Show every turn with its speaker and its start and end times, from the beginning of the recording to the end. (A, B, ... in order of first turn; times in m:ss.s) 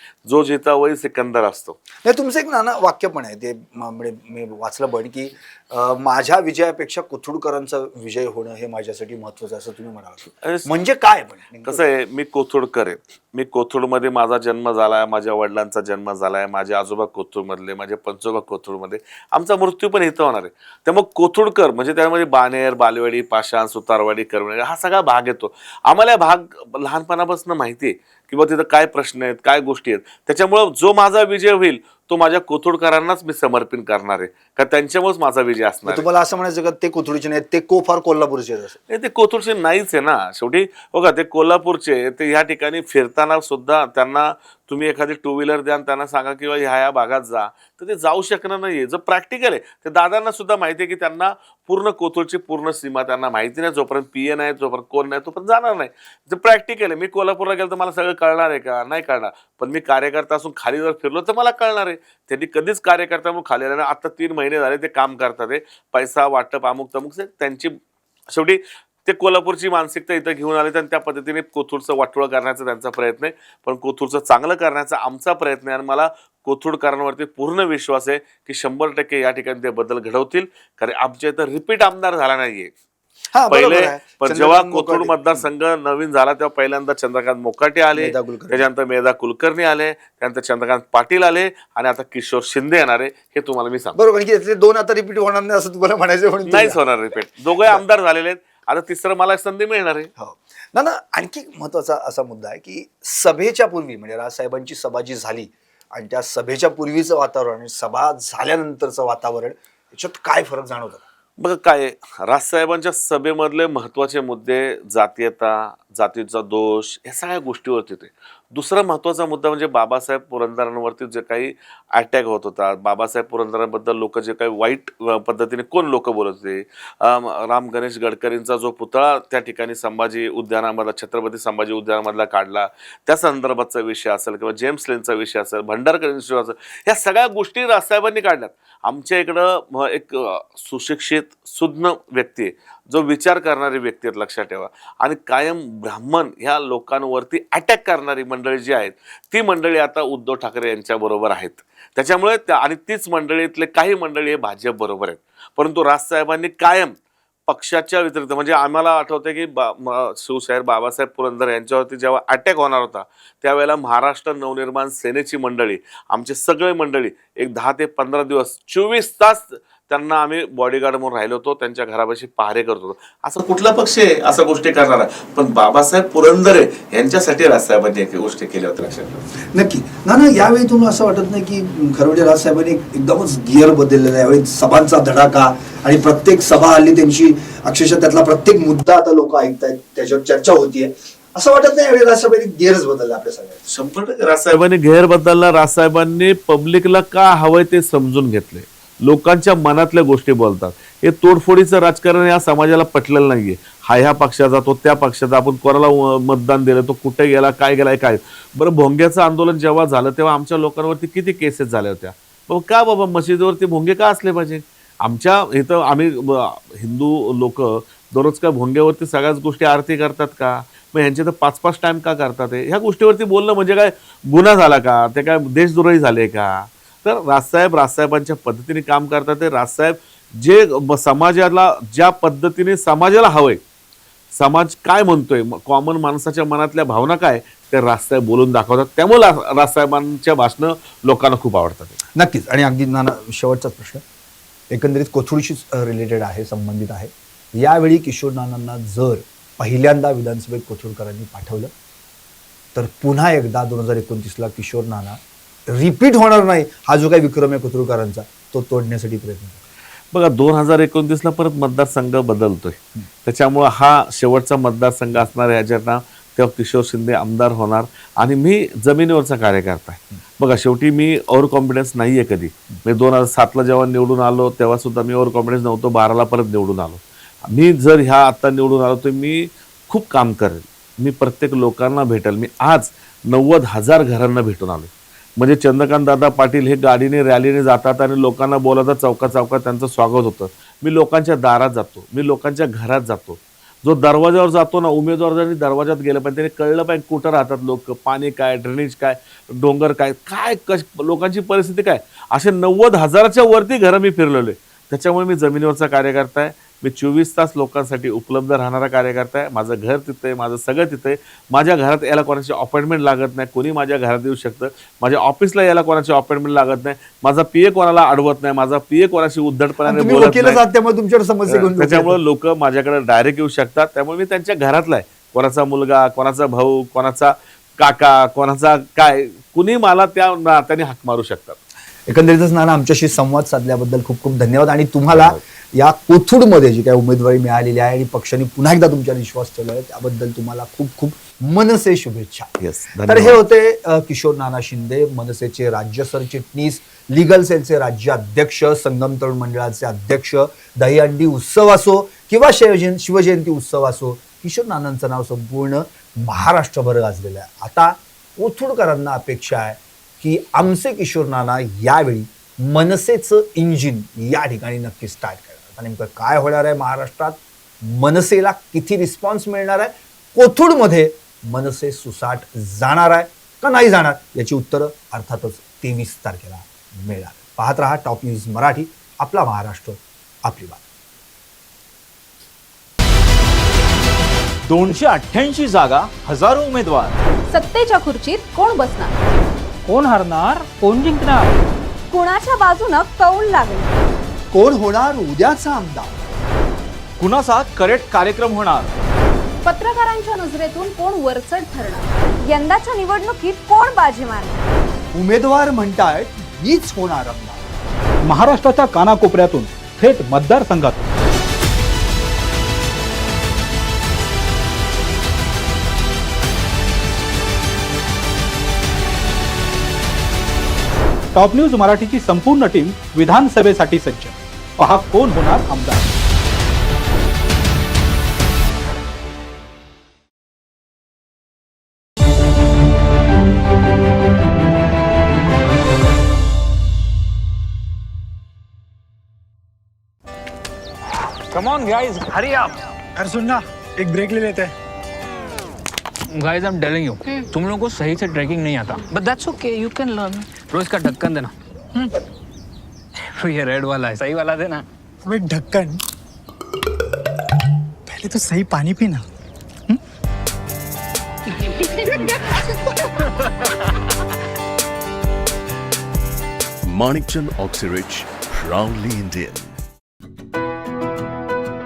0:00.2-0:01.8 A
0:02.0-0:11.8 B
0:10.4-0:10.7 A
0:11.6-0:36.1 A
0:35.8-0:38.8 B
0:38.9-1:07.7 A
1:08.3-1:22.7 A
1:23.3-1:25.5 B
1:23.5-1:34.0 A
1:27.9-1:28.6 B
1:33.9-1:37.8 B
1:36.5-1:40.1 A
1:40.2-1:51.0 B
1:51.4-2:36.9 A
2:37.5-2:59.2 A
2:59.5-3:13.6 B
3:13.6-3:53.6 A
3:54.3-4:02.0 A
4:02.1-4:04.0 B
4:04.7-4:11.7 B
4:12.7-4:19.6 B
4:20.1-5:20.6 A
5:19.8-5:22.2 B
5:21.5-5:31.6 A
5:32.1-5:42.5 B
5:35.1-5:35.4 A
5:42.6-5:43.4 A
5:43.0-6:20.8 B
6:24.7-6:27.1 C
6:27.5-6:29.1 D
6:29.8-6:31.6 E
6:32.1-6:33.9 D
6:34.5-6:36.1 B
6:37.2-6:38.9 C
6:39.6-6:44.6 D
6:45.1-6:47.6 B
6:48.2-6:50.9 E
7:01.3-7:06.1 E
7:21.5-7:22.7 F
7:23.2-7:24.7 G
7:26.3-7:32.1 F
7:33.2-7:34.8 F
7:35.2-7:36.0 G
7:38.1-7:39.2 G
7:46.8-7:49.7 H